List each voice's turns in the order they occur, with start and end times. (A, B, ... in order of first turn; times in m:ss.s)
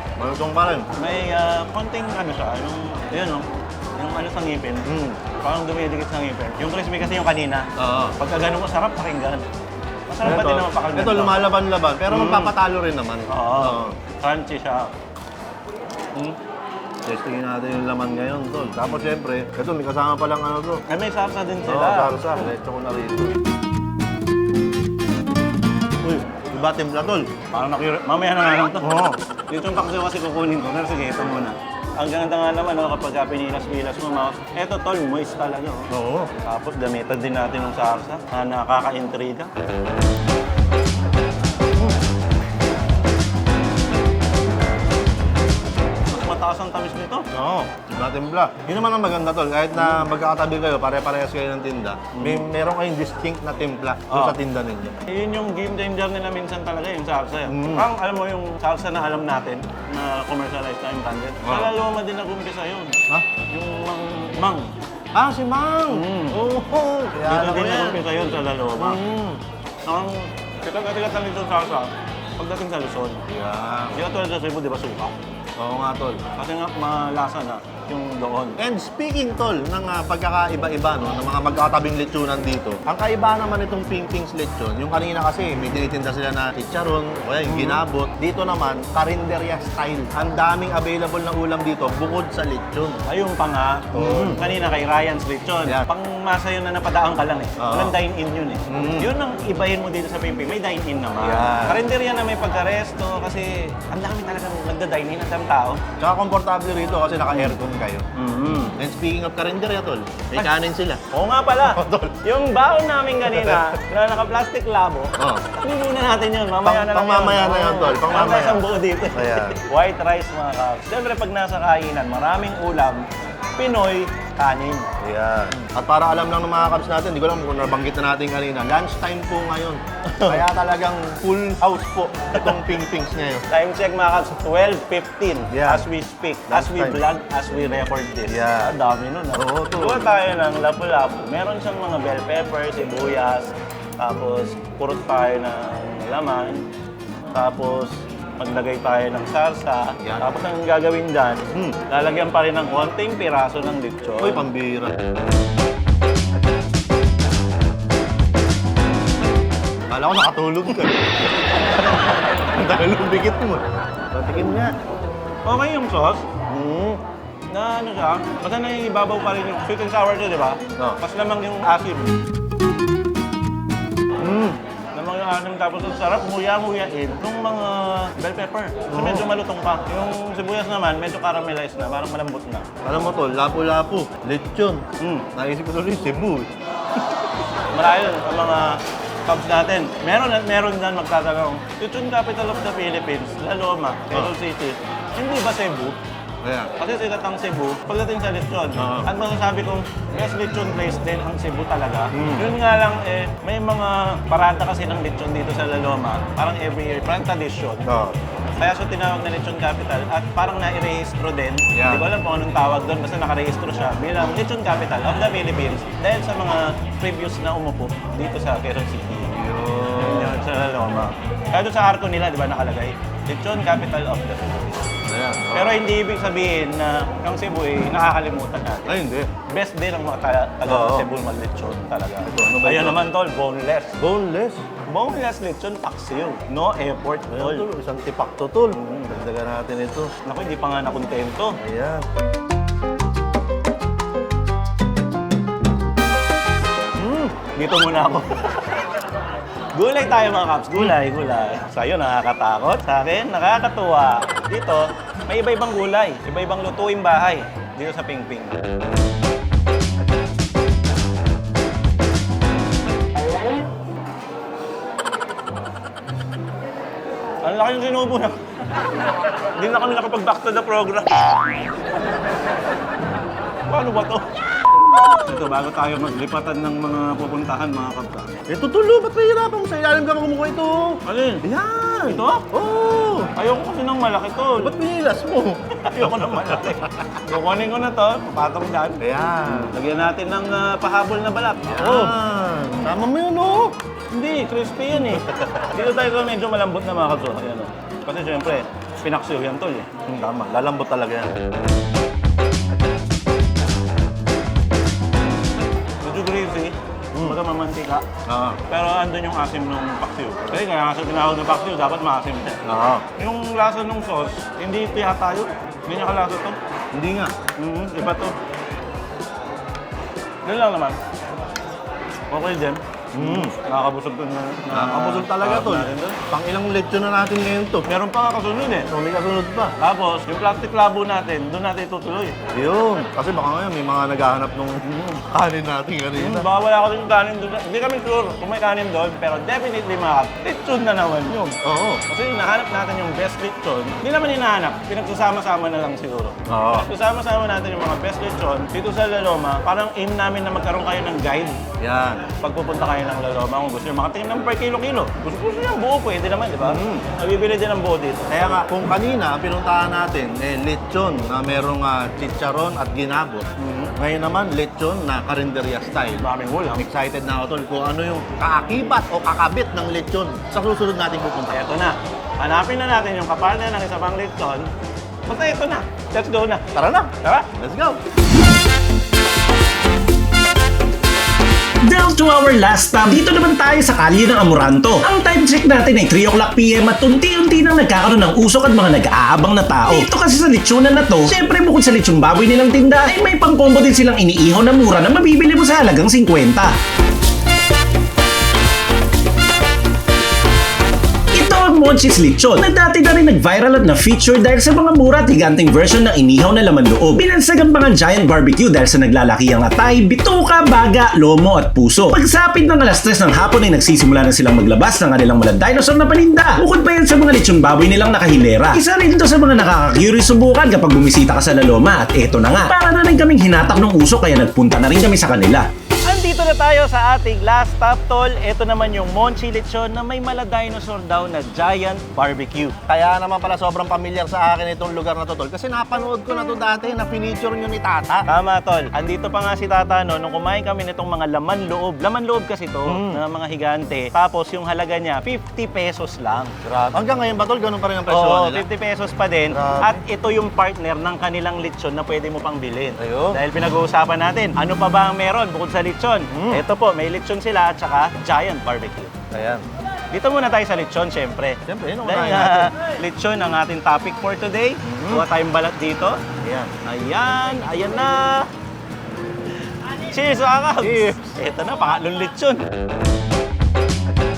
0:00.2-0:00.9 A
0:00.9-0:09.5 B
0:04.8-0:05.2 A
0:07.8-0:08.2 A
0:10.1-0:11.5 B
0:10.2-0:14.0 A
0:12.1-0:12.5 B
0:13.3-0:14.9 B
0:17.0-0:20.8 A
0:20.9-0:22.4 B
0:21.6-0:23.4 A
0:26.0-0:27.3 A
0:27.5-0:28.9 B
0:28.8-0:29.2 A
0:29.5-0:35.9 B
0:35.9-0:36.3 A
0:36.4-0:39.5 B
0:46.1-0:47.3 B
0:47.3-0:55.0 A
0:52.1-0:52.4 B
0:54.1-0:54.4 B
0:55.1-1:04.7 B
0:57.5-0:57.9 A
1:01.4-1:01.7 A
1:05.1-1:08.0 A
1:05.9-1:06.4 B
1:07.2-1:09.0 B
1:08.8-1:09.4 A
1:09.8-1:13.2 B
1:13.3-1:14.0 A
1:13.9-1:15.2 B
1:15.6-1:16.3 A
1:16.4-1:18.6 B
1:18.6-1:33.0 A
1:27.5-1:27.8 B
1:33.1-1:45.8 B
1:33.9-1:34.4 A
1:37.6-1:38.0 A
1:38.7-1:39.1 A
1:41.2-1:41.8 A
1:46.0-1:51.0 A
1:47.3-1:47.6 B
1:48.2-1:48.8 B
1:51.1-2:03.1 B
1:51.6-1:52.2 A
1:53.3-1:53.7 A
1:55.2-1:55.4 A
1:56.6-1:59.6 A
2:03.6-2:05.0 B
2:05.0-2:13.4 A
2:10.1-2:10.4 B
2:12.3-2:12.7 B
2:13.5-2:26.7 B
2:15.5-2:15.9 A
2:16.5-2:17.0 A
2:18.2-2:18.7 A
2:19.3-2:20.1 A
2:27.3-2:34.5 B
2:30.0-2:30.4 A
2:31.5-2:31.8 A
2:34.2-2:35.0 A
2:39.9-2:44.8 A
2:45.4-2:46.3 B
2:46.5-2:47.0 A
2:47.5-2:52.2 B
2:54.2-2:54.6 A
2:54.9-3:02.7 B
2:58.9-2:59.3 A
3:02.8-3:06.5 A
3:05.0-3:05.3 B
3:07.7-3:16.0 B
3:16.4-3:16.7 A
3:16.8-3:27.8 B
3:18.8-3:19.1 A
3:22.1-3:22.5 A
3:27.8-3:28.2 A
3:28.6-3:39.3 B
3:31.7-3:32.1 A
3:39.3-3:40.4 A
3:40.0-3:44.9 B
3:45.1-3:45.8 A
3:45.5-3:54.0 B
3:48.9-3:49.3 A
3:50.6-3:51.1 A
3:52.1-3:53.0 A
3:54.0-3:54.7 A
3:54.9-3:57.7 B
3:57.3-4:00.1 A
3:58.7-3:59.2 B
4:00.2-4:01.6 B
4:01.6-4:02.0 A
4:07.0-4:07.4 A
4:07.4-4:08.8 B
4:09.7-4:18.6 B
4:27.4-4:28.4 B
4:29.6-4:31.6 B
4:33.7-4:34.4 B
4:34.9-4:35.2 A
4:35.0-4:38.4 B
4:38.5-4:43.3 A
4:41.0-4:41.4 B
4:42.1-4:42.4 B
4:43.3-4:44.8 B
4:44.6-4:47.1 A
4:45.8-4:52.2 B
4:49.0-4:49.7 A
4:51.7-4:53.8 A
4:54.1-4:59.9 B
4:55.1-4:55.7 A
5:00.0-5:01.4 A
5:06.0-5:08.0 B
5:07.1-5:07.4 A
5:08.3-5:08.6 A
5:08.7-5:12.6 B
5:12.6-5:13.1 A
5:13.2-5:16.6 B
5:16.9-5:17.3 A
5:17.6-5:18.4 B
5:20.4-5:21.0 B
5:22.3-5:26.2 B
5:23.1-5:23.5 A
5:24.7-5:27.9 A
5:27.8-5:28.9 B
5:28.9-5:29.7 A
5:29.8-5:32.4 B
5:32.5-5:36.5 A
5:34.8-5:35.2 B
5:36.2-5:51.6 B
5:41.6-5:42.0 A
5:46.5-5:46.9 A
5:51.8-5:52.3 A
5:52.4-5:58.4 B
5:56.6-5:57.1 A
5:58.3-6:11.7 A
6:03.6-6:03.9 B
6:06.2-6:06.9 B
6:11.5-6:14.7 B
6:15.3-6:16.7 B
6:16.8-6:18.0 A
6:17.2-6:17.5 B
6:21.8-6:36.8 C
6:41.3-7:05.7 C
7:06.0-7:12.8 B
7:12.9-7:18.3 A
7:18.3-7:26.6 B
7:22.8-7:23.2 A
7:26.6-7:28.7 A
7:28.1-7:39.2 B
7:29.5-7:30.0 A
7:33.0-7:33.4 A
7:36.3-7:36.6 A
7:39.3-7:39.7 A
7:40.1-7:46.2 B
7:41.6-7:42.7 A
7:44.8-7:45.2 A
7:46.4-7:46.7 A
7:46.8-7:48.5 B
7:49.9-7:52.6 B
7:50.8-7:51.3 A